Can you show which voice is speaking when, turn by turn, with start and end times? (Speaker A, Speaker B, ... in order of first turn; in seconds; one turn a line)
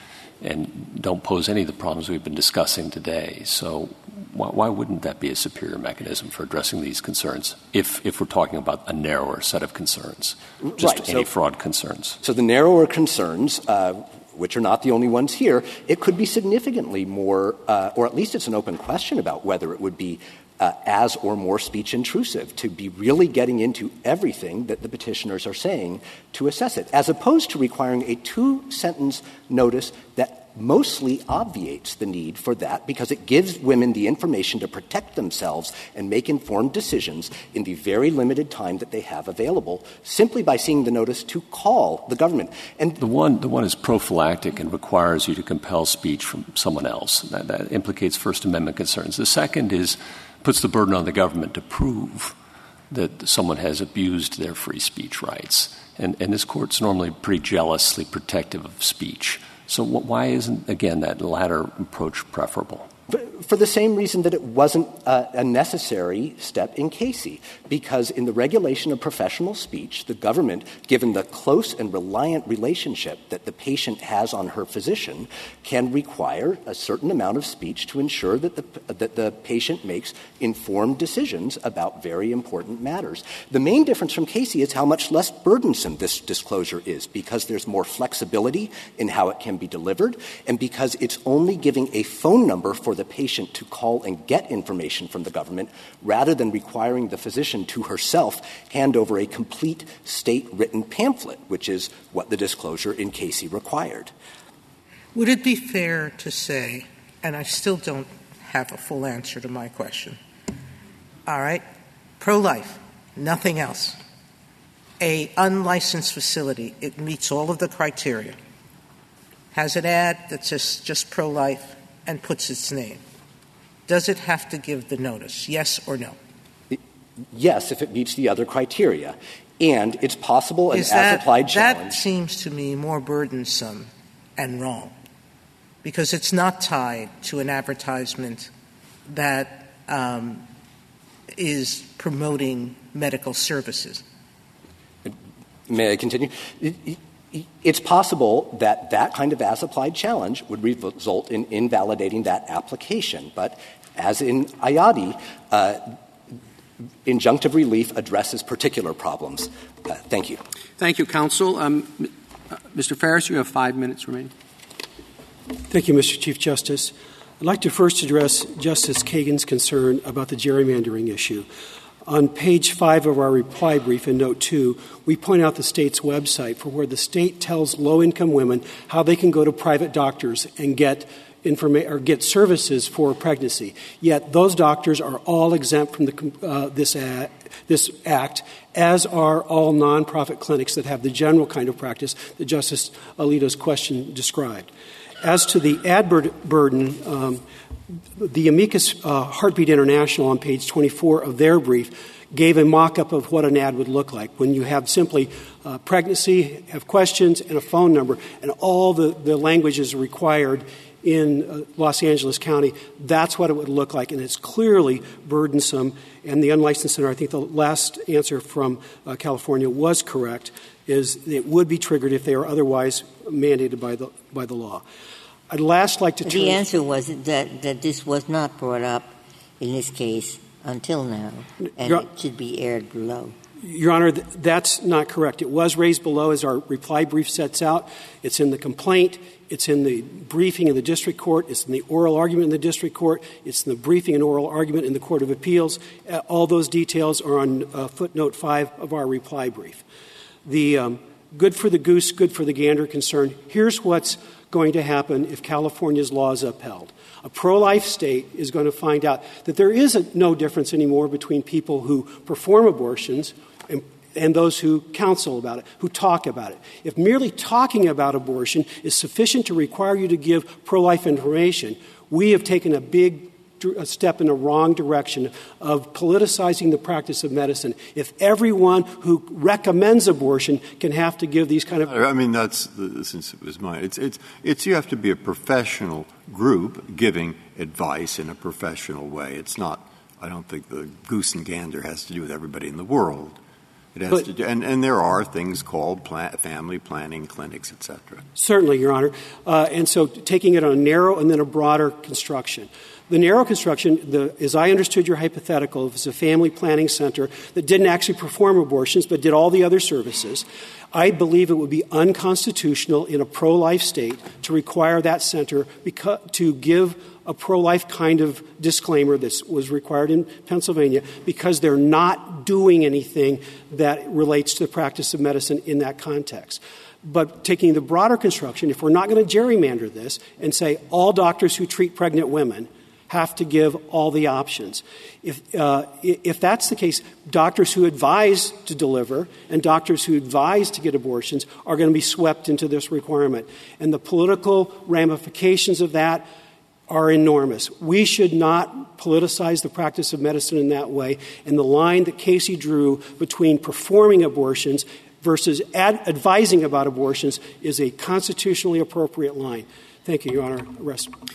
Speaker A: 0.4-12.2
Speaker B: 10.6-11.3
Speaker B: 12.2-43.0
Speaker A: 43.0-52.4
Speaker A: 52.9-62.9
Speaker B: 63.1-104.1
Speaker C: 105.1-110.2
Speaker C: 111.3-111.6
Speaker C: 112.2-114.0
Speaker C: 115.0-118.4
Speaker C: 119.5-123.0
Speaker C: 123.9-126.2
Speaker B: 127.3-132.0
Speaker C: 130.7-134.9
Speaker C: 135.8-138.5
Speaker C: 139.1-140.4
Speaker C: 141.3-144.0
Speaker B: 145.7-155.9
Speaker B: 157.1-160.4
Speaker D: 160.8-164.3
Speaker E: 165.7-171.5
Speaker E: 172.1-194.7
Speaker E: 195.2-197.4
Speaker E: 198.1-224.8
Speaker E: 225.5-226.6
Speaker F: 226.2-233.3
Speaker E: 233.6-249.8
Speaker E: 250.4-281.9
Speaker G: 281.8-293.4
Speaker G: 293.9-298.2
Speaker E: 298.4-346.3
Speaker E: 346.9-361.1